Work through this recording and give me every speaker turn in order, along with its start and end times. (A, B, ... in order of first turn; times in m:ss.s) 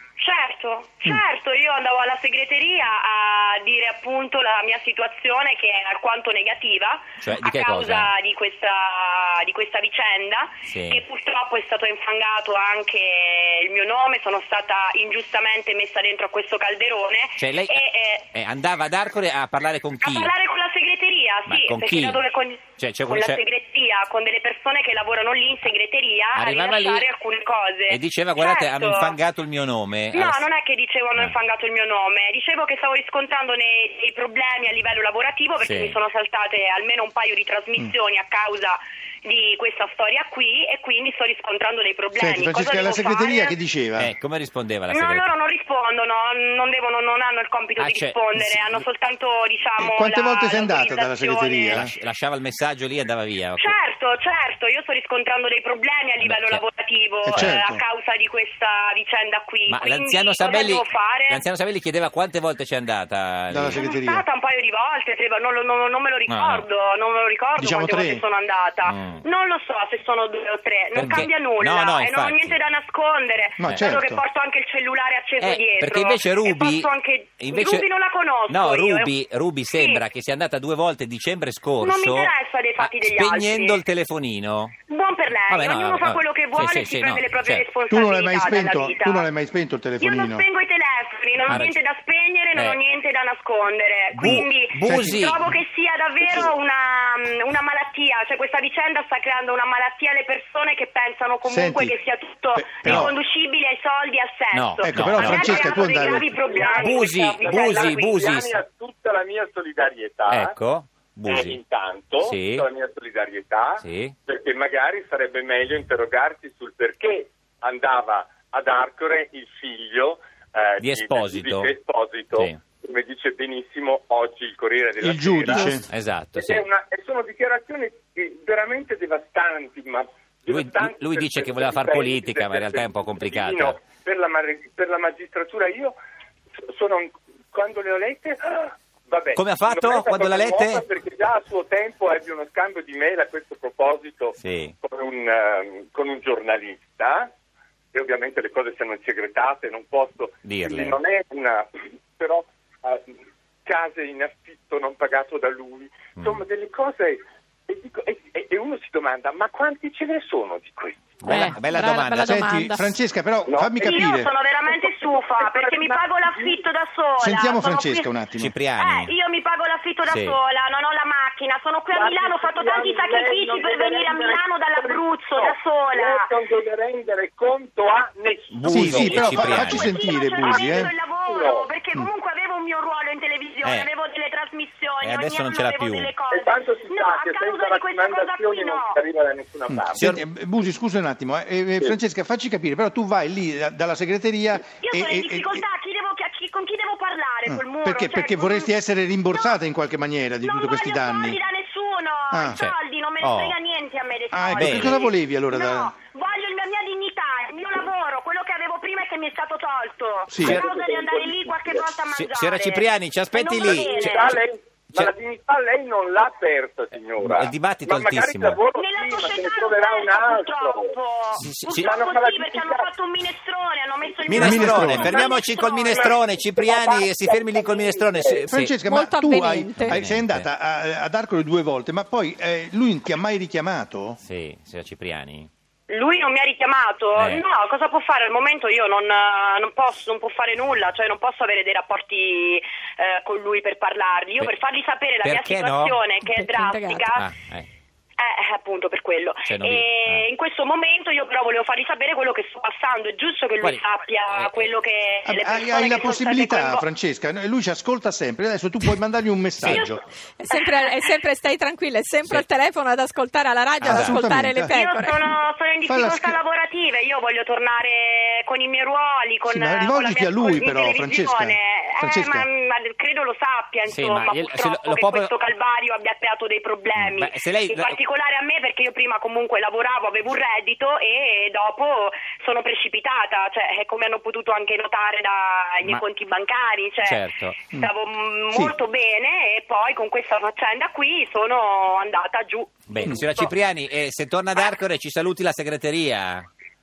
0:00.2-0:18.3 A
0:07.2-0:08.1 B
0:10.7-0:11.0 B
0:17.4-0:20.3 B
0:20.0-0:29.2 A
0:21.4-0:22.2 B
0:22.8-0:23.4 B
0:26.3-0:27.1 B
0:27.9-0:30.5 B
0:30.1-0:43.6 A
0:35.6-0:36.0 B
0:42.1-0:44.1 C
0:44.0-0:45.2 B
0:44.9-0:51.9 A
0:47.8-0:48.6 B
0:49.8-0:51.9 C
0:51.7-0:53.7 B
0:53.6-1:01.4 A
0:56.2-0:56.6 B
0:57.2-0:57.8 C
0:59.7-1:03.8 B
1:03.5-1:04.2 C
1:03.7-1:19.1 A
1:06.3-1:06.7 B
1:07.6-1:08.2 C
1:08.8-1:09.2 B
1:10.9-1:12.6 B
1:13.6-1:14.2 C
1:13.6-1:13.9 B
1:15.4-1:17.9 B
1:18.5-1:24.7 B
1:19.7-1:20.0 A
1:21.8-1:23.8 A
1:24.9-1:29.3 A
1:25.5-1:27.6 B
1:27.9-1:30.4 C
1:30.0-1:48.2 A
1:31.5-1:31.8 B
1:34.1-1:35.4 B
1:34.2-1:35.5 C
1:41.4-1:42.0 C
1:42.5-1:43.1 C
1:42.8-1:43.1 B
1:44.5-1:45.6 B
1:44.8-1:46.3 C
1:45.3-1:45.8 D
1:46.4-1:50.5 D
1:46.8-1:48.6 B
1:50.3-1:51.6 B
1:51.3-2:05.8 D
1:52.2-1:52.7 B
1:53.8-1:54.1 B
2:00.8-2:01.7 B
2:02.3-2:02.6 B
2:05.0-2:05.8 C
2:05.9-2:06.6 B
2:06.3-2:16.0 D
2:10.5-2:13.8 B
2:16.7-2:27.3 D
2:19.3-2:20.8 B
2:24.4-2:24.7 B
2:27.9-2:33.1 D
2:30.4-2:31.0 B
2:33.6-2:41.2 D
2:36.2-2:36.4 B
2:41.2-2:42.4 B
2:41.2-2:42.9 E
2:42.1-2:44.3 C
2:43.4-2:43.9 D
2:43.8-2:48.1 A
2:44.7-2:46.6 D
2:47.2-2:48.5 C
2:48.4-2:49.1 B
2:48.8-2:56.3 A
2:50.1-2:50.4 B
2:51.9-2:59.2 D
2:58.5-3:00.0 B
2:58.7-3:00.9 C
2:58.9-3:09.0 A
3:00.4-3:01.7 D
3:03.6-3:03.9 B
3:05.0-3:06.1 B
3:06.3-3:10.1 D
3:09.7-3:15.6 C
3:09.9-3:10.2 B
3:14.8-3:18.7 A
3:17.4-3:21.4 C
3:19.3-3:19.6 A
3:20.4-3:34.4 A
3:22.3-3:22.6 C
3:22.5-3:23.6 B
3:24.3-3:25.9 C
3:24.6-3:25.0 B
3:30.3-3:30.6 C
3:30.4-3:31.9 D
3:32.1-3:34.2 B
3:33.6-3:40.9 D
3:37.2-3:38.6 B
3:38.7-3:46.2 A
3:41.4-3:41.9 B
3:41.8-3:42.9 D
3:44.2-3:45.1 D
3:44.3-3:48.7 B
3:44.3-3:45.3 C
3:45.8-3:48.4 D
3:48.5-3:54.2 C
3:48.8-3:50.0 E
3:49.8-3:50.5 B
3:54.2-3:55.5 B
3:55.9-4:07.2 A
3:57.2-3:57.4 B
4:05.2-4:06.0 B
4:06.2-4:07.2 E
4:07.1-4:07.7 B
4:08.2-4:16.9 A
4:09.4-4:10.3 B
4:13.6-4:14.7 B
4:15.2-4:20.0 C
4:19.6-4:19.9 B
4:19.7-4:20.9 A
4:20.4-4:25.3 E
4:23.8-4:24.8 C
4:23.8-4:24.2 B
4:24.7-4:47.2 A
4:25.8-4:26.4 C
4:29.4-4:32.4 C
4:33.9-4:35.3 B
4:36.9-4:38.0 B
4:47.0-4:47.6 B
4:47.7-4:53.5 A
4:52.9-4:56.5 B